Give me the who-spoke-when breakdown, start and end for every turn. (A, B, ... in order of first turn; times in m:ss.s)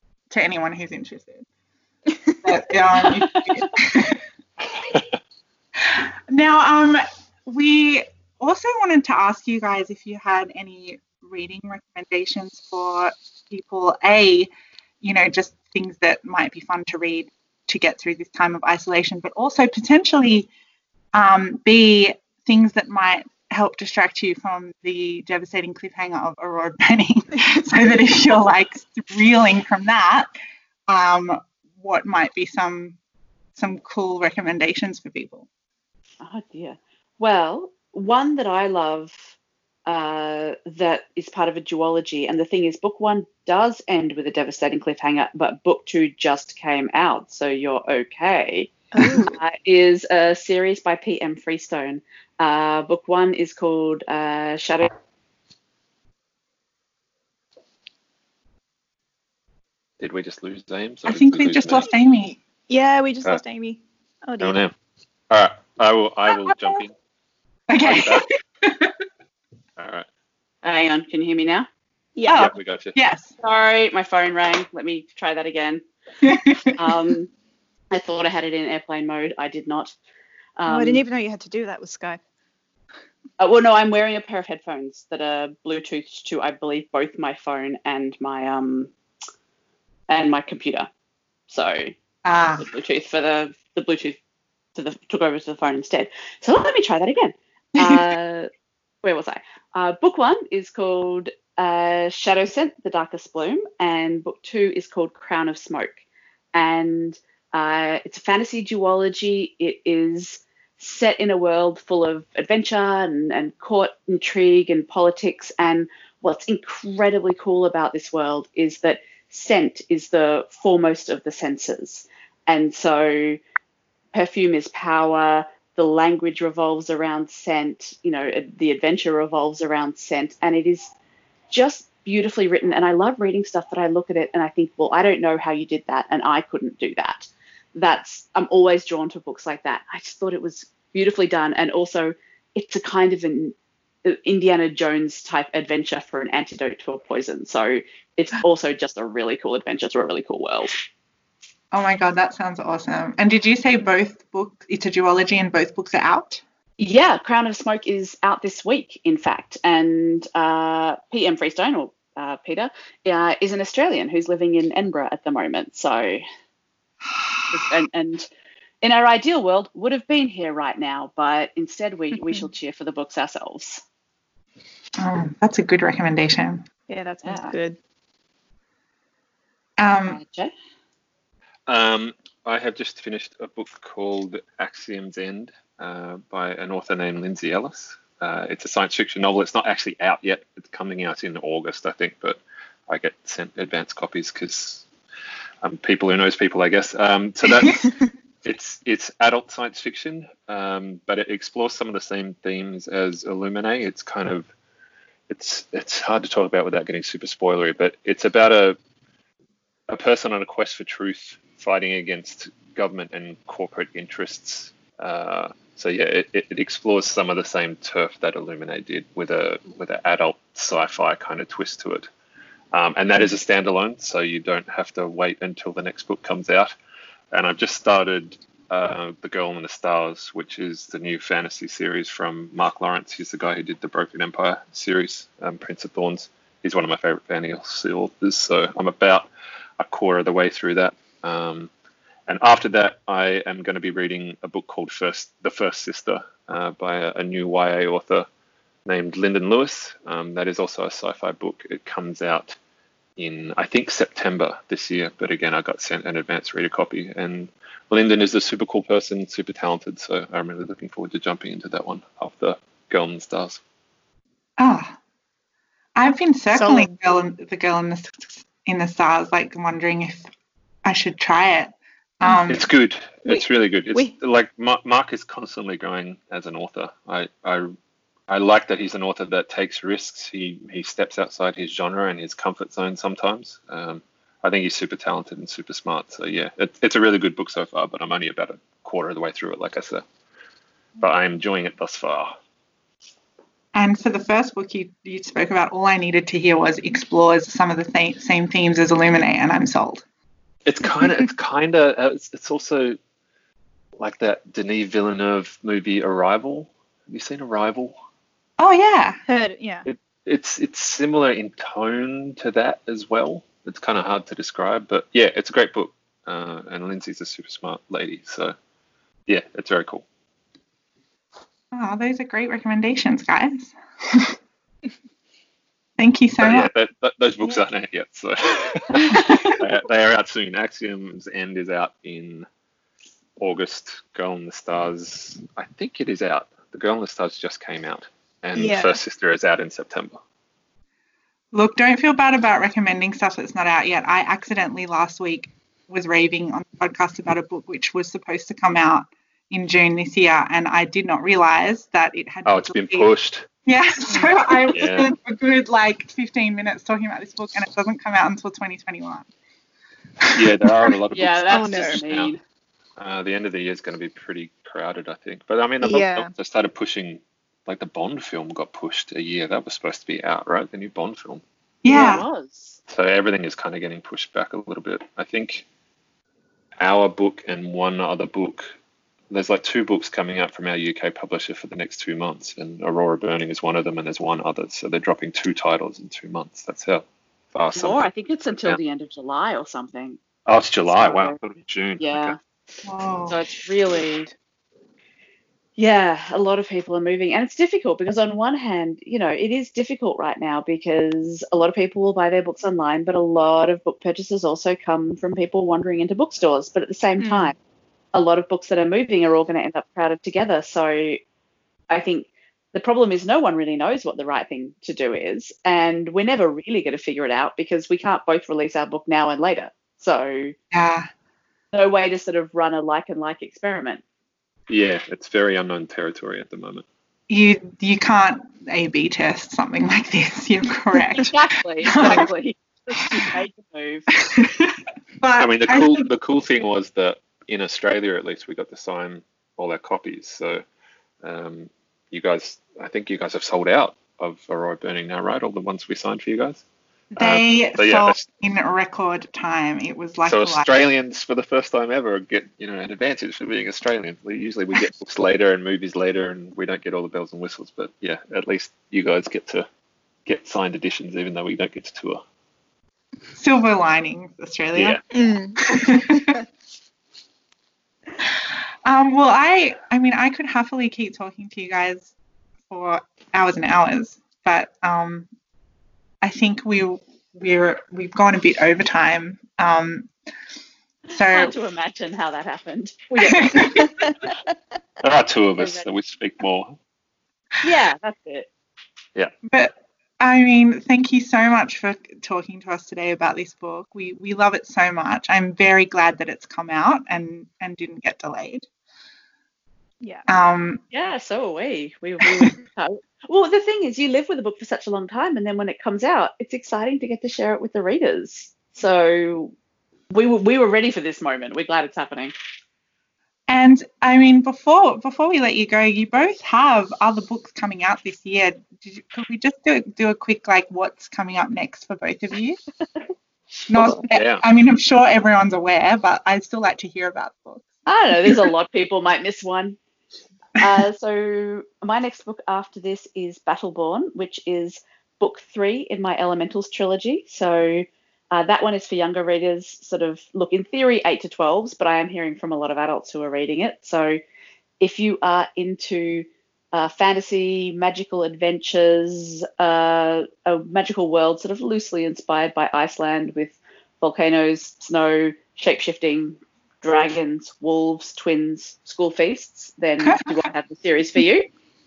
0:00.3-0:01.4 A
0:02.4-0:04.2 A
0:02.9-0:03.7 B
0:05.8-0:14.5 A
0:15.0-0:20.5 A
0:21.1-0:30.3 A
0:30.9-0:33.0 A
0:33.6-0:35.5 A
0:36.2-0:39.3 B
0:39.8-0:54.9 B
0:48.9-0:49.4 C
1:00.0-1:01.9 D
1:01.0-1:02.4 A
1:02.7-1:04.6 C
1:04.4-1:04.7 D
1:05.3-1:06.9 D
1:07.7-1:08.9 A
1:07.8-1:08.3 D
1:09.8-1:10.0 D
1:10.6-1:11.7 B
1:12.2-1:12.4 C
1:12.3-1:13.3 A
1:12.3-1:12.9 D
1:13.4-1:15.8 B
1:16.2-1:16.9 A
1:16.8-1:17.3 B
1:17.9-1:19.9 B
1:20.6-1:21.0 B
1:20.7-1:22.2 C
1:23.4-1:28.9 B
1:30.1-1:30.9 B
1:31.5-1:31.9 B
1:32.2-1:32.6 A
1:32.6-1:34.2 B
1:34.7-1:38.5 B
1:37.8-1:38.0 A
1:39.0-1:46.0 B
1:46.5-2:03.4 B
2:04.1-2:10.9 B
2:11.5-2:30.7 B
2:31.7-2:36.4 A
2:36.8-2:46.2 B
2:47.5-2:48.3 B
2:48.8-2:53.8 B
2:55.0-2:56.6 A
2:56.9-2:57.8 C
2:57.2-2:57.5 B
2:59.8-3:00.2 A
3:00.0-3:00.5 B
3:01.7-3:14.8 D
3:15.6-3:17.9 D
3:18.4-3:24.5 D
3:25.3-3:28.8 D
3:29.9-3:42.1 D
3:42.7-3:46.7 D
3:47.3-4:01.7 D
4:02.3-4:08.3 D
4:08.8-4:12.6 D
4:13.2-4:23.6 D
4:24.6-4:25.0 A
4:25.9-4:30.2 A
4:26.5-4:26.9 C
4:30.8-4:32.6 A
4:32.5-4:37.7 D
4:38.3-4:50.0 D
4:51.0-4:52.3 D
4:53.7-5:00.0 A
5:00.6-5:03.0 D
5:04.0-5:08.0 D
5:08.6-5:09.2 A
5:09.3-5:09.8 C
5:09.8-5:18.5 D
5:19.3-5:20.0 D
5:21.7-5:24.3 A
5:26.0-5:26.7 A
5:26.4-5:32.5 D
5:29.1-5:29.5 C
5:33.4-5:40.2 D
5:38.6-5:39.0 C
5:41.5-5:53.1 A
5:52.4-5:53.4 D
5:53.6-5:59.3 A
5:54.1-5:54.7 C
5:54.7-5:55.1 D
6:00.2-6:00.9 A
6:00.3-6:02.3 D
6:01.1-6:02.4 B
6:01.5-6:02.0 C
6:03.0-6:11.4 D
6:05.8-6:06.3 C
6:11.8-6:12.2 A
6:11.9-6:12.8 B
6:12.9-6:15.6 D
6:16.8-6:18.7 D
6:19.3-6:28.1 D
6:27.7-6:30.2 B
6:30.4-6:32.4 D
6:30.8-6:31.4 B
6:32.0-6:32.4 B
6:32.8-6:33.4 A
6:33.3-6:34.3 B
6:35.8-6:47.6 B
6:47.2-6:47.5 C
6:48.1-6:51.2 B
6:51.9-7:00.6 B
7:00.7-7:01.1 A
7:01.7-7:04.0 B
7:04.7-7:06.8 D
7:07.3-7:12.3 A
7:11.2-7:14.1 B
7:14.2-7:16.1 A
7:15.4-7:20.6 D
7:21.2-7:26.6 D
7:27.2-7:28.2 D
7:27.2-7:30.7 A
7:30.2-7:39.6 D
7:40.2-7:42.2 D
7:43.3-7:45.0 A
7:44.7-7:45.0 D
7:45.1-7:46.4 C
7:45.6-7:46.4 A
7:48.2-7:52.1 A
7:52.7-7:55.3 A
7:56.2-8:00.1 A
8:01.1-8:03.9 B
8:01.1-8:01.6 A
8:03.2-8:03.9 A
8:05.0-8:06.8 D
8:05.6-8:05.9 B
8:07.6-8:08.5 B
8:09.5-8:18.7 A
8:20.3-8:20.8 A
8:20.9-8:29.5 B
8:30.1-8:32.3 B
8:33.5-8:42.6 A
8:43.7-8:47.7 A
8:44.1-8:44.4 D
8:47.8-8:49.8 B
8:48.2-8:48.5 A
8:50.6-9:04.2 B
9:04.8-9:21.5 B
9:20.0-9:20.3 A